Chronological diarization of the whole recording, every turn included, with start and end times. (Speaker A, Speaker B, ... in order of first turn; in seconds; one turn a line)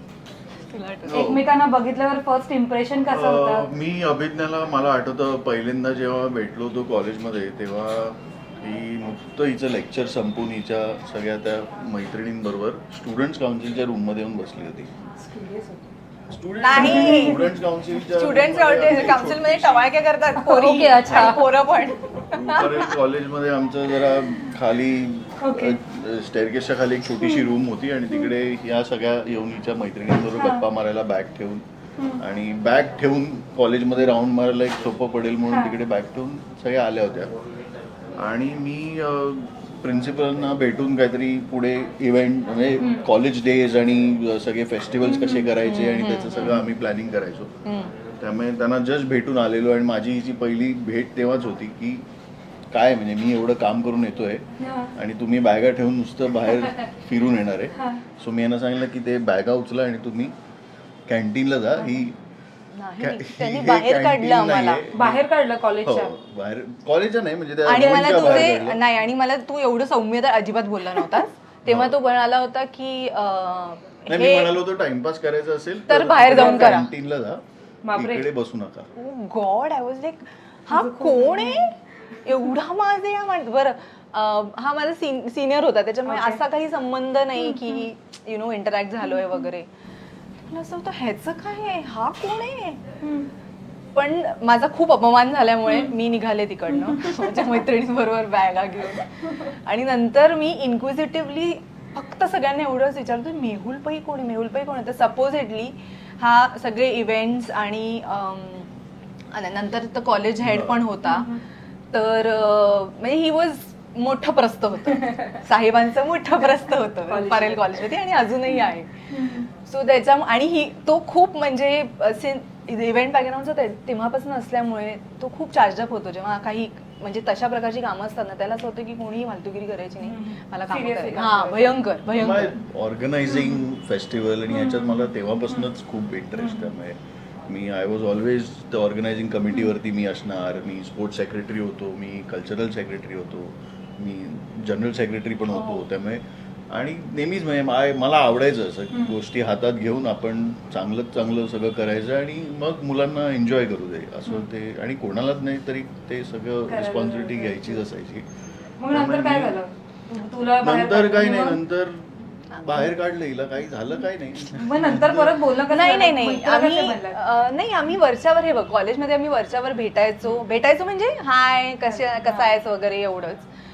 Speaker A: 0.7-1.2
Speaker B: 1.1-1.5
Speaker C: 1.1-3.7
Speaker B: 3.1-14.9
Speaker C: 15.2-15.9
Speaker B: 16.3-19.9
Speaker A: 16.6-22.9
Speaker C: 16.8-17.4
Speaker C: 20.4-21.4
Speaker B: 22.3-31.6
Speaker C: 25.4-25.8
Speaker C: 27.2-27.5
Speaker C: 30.4-30.6
Speaker B: 32.2-37.3
Speaker C: 35.5-35.7
Speaker B: 38.1-47.5
Speaker C: 45.0-45.5
Speaker A: 45.6-46.6
Speaker A: 47.6-47.9
Speaker B: 48.2-52.0
Speaker B: 52.7-60.3
Speaker C: 54.6-54.9
Speaker C: 57.8-58.0
Speaker B: 61.1-62.2
Speaker A: 62.7-64.8
Speaker B: 63.0-65.2
Speaker C: 64.9-66.1
Speaker B: 65.8-68.8
Speaker A: 67.6-74.6
Speaker C: 68.1-68.5
Speaker B: 71.7-72.0
Speaker B: 74.1-77.4
Speaker A: 75.9-76.9
Speaker C: 76.3-76.8
Speaker C: 77.8-78.3
Speaker B: 77.9-78.9
Speaker A: 79.0-89.7
Speaker C: 80.7-81.7
Speaker C: 86.0-86.4
Speaker C: 87.4-87.8
Speaker C: 89.0-89.5
Speaker A: 90.5-92.8
Speaker C: 93.0-93.3
Speaker A: 94.0-108.7
Speaker C: 96.7-97.4
Speaker A: 109.3-111.4
Speaker B: 110.4-110.8
Speaker C: 111.0-111.4
Speaker A: 111.9-118.9
Speaker C: 117.0-117.8
Speaker C: 119.1-119.5
Speaker A: 119.6-132.6
Speaker C: 130.0-131.8
Speaker B: 132.1-158.2
Speaker C: 133.2-133.6
Speaker C: 134.5-135.7
Speaker C: 136.4-136.7
Speaker C: 145.5-145.8
Speaker C: 148.9-149.2
Speaker C: 156.7-157.8
Speaker C: 158.8-161.6
Speaker B: 158.9-159.6
Speaker B: 160.6-165.4
Speaker C: 164.4-167.2
Speaker A: 165.7-173.4
Speaker C: 171.9-172.6